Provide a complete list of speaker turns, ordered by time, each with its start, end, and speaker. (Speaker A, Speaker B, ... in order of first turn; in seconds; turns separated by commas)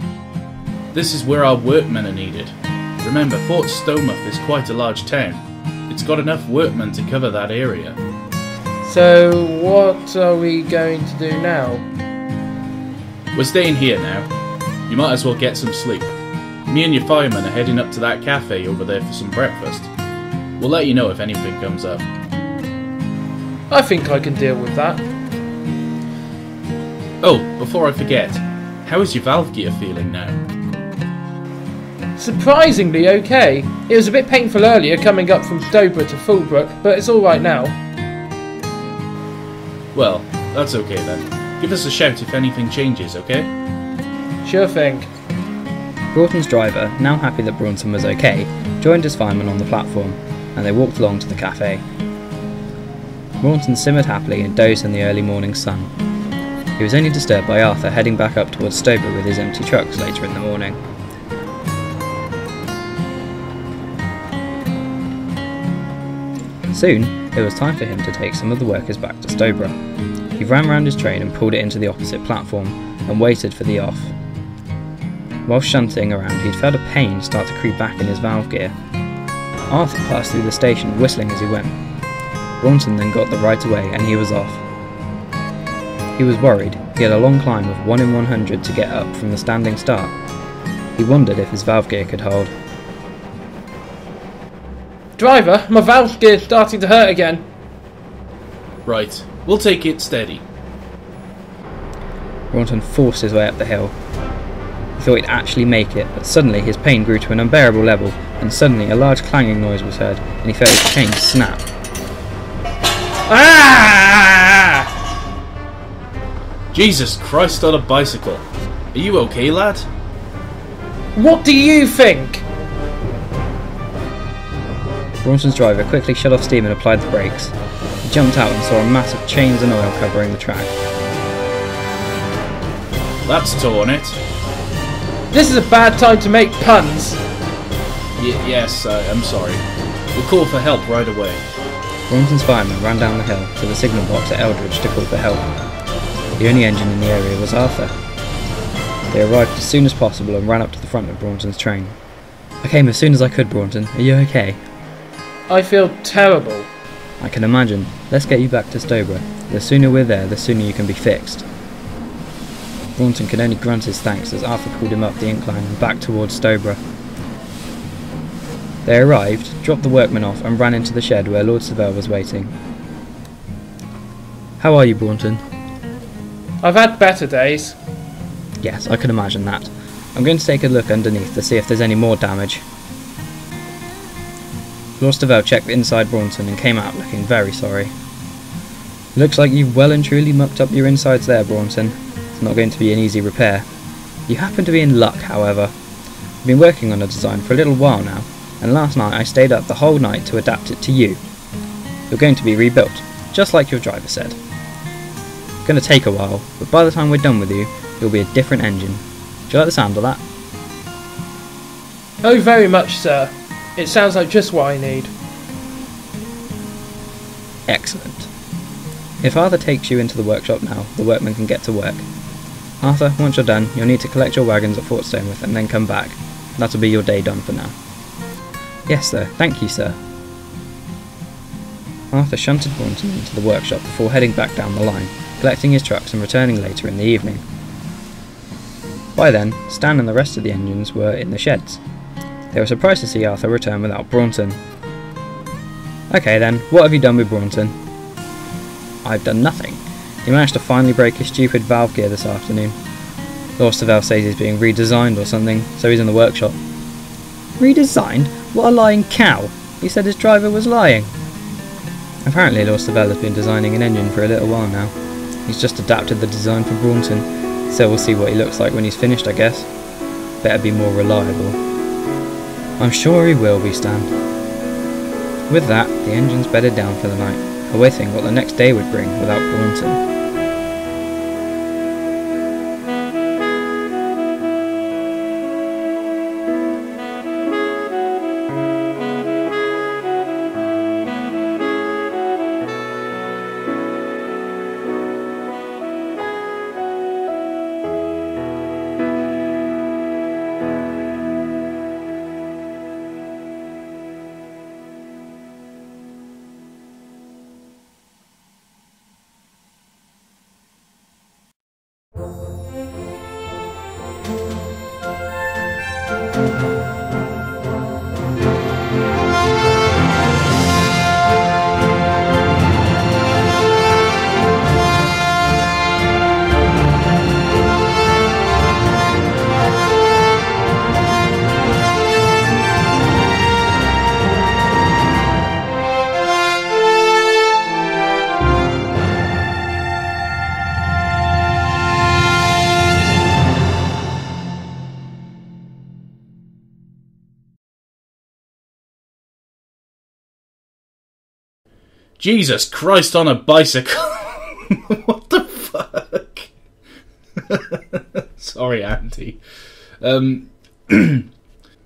Speaker A: 0.9-8.0, Speaker B: 8.8-11.9, Speaker A: 13.3-14.3, Speaker A: 14.9-16.1, Speaker A: 16.7-19.9, Speaker A: 20.6-22.1, Speaker B: 23.7-25.1, Speaker A: 27.2-30.4, Speaker B: 32.2-37.8, Speaker A: 39.9-43.5, Speaker B: 44.4-45.1, Speaker C: 46.1-51.8, Speaker C: 53.4-55.9, Speaker C: 56.8-60.8, Speaker C: 66.7-69.8, Speaker C: 70.4-74.1, Speaker C: 75.5-78.7, Speaker C: 79.7-81.8, Speaker C: 82.6-84.6, Speaker C: 86.2-90.2, Speaker C: 91.0-92.5, Speaker B: 95.2-97.4, Speaker A: 98.8-100.4, Speaker C: 102.5-104.0, Speaker C: 105.0-111.7, Speaker B: 113.3-114.9, Speaker A: 116.7-119.9, Speaker B: 121.2-122.5, Speaker C: 125.2-127.5, Speaker C: 128.1-130.8, Speaker A: 133.3-134.2, Speaker B: 135.3-137.2, Speaker A: 138.2-141.4, Speaker C: 142.1-145.5, Speaker C: 146.4-147.9, Speaker C: 149.1-152.0, Speaker C: 152.6-154.6, Speaker B: 155.5-156.7, Speaker C: 157.2-161.5, Speaker C: 163.0-166.8, Speaker C: 168.8-172.5, Speaker C: 174.6-175.4, Speaker B: 176.6-177.8, Speaker C: 178.6-182.7, Speaker C: 185.0-187.9, Speaker C: 189.2-193.7, Speaker C: 194.3-195.7, Speaker C: 196.4-201.2, Speaker C: 202.1-204.4, Speaker C: 205.7-210.2, Speaker B: 212.2-215.1, Speaker C: 217.7-218.3, Speaker C: 219.2-222.1, Speaker C: 222.8-227.8, Speaker C: 228.9-230.0, Speaker C: 232.1-237.4, Speaker C: 239.2-241.8, Speaker C: 242.5-244.6, Speaker C: 246.1-247.8, Speaker C: 249.0-252.8, Speaker C: 253.6-256.6, Speaker C: 257.6-261.1, Speaker C: 262.2-264.9, Speaker C: 265.5-269.7, Speaker C: 270.4-271.6, Speaker C: 272.8-274.1, Speaker C: 275.5-280.0, Speaker A: 352.2-356.5, Speaker A: 357.5-359.4, Speaker A: 360.0-361.3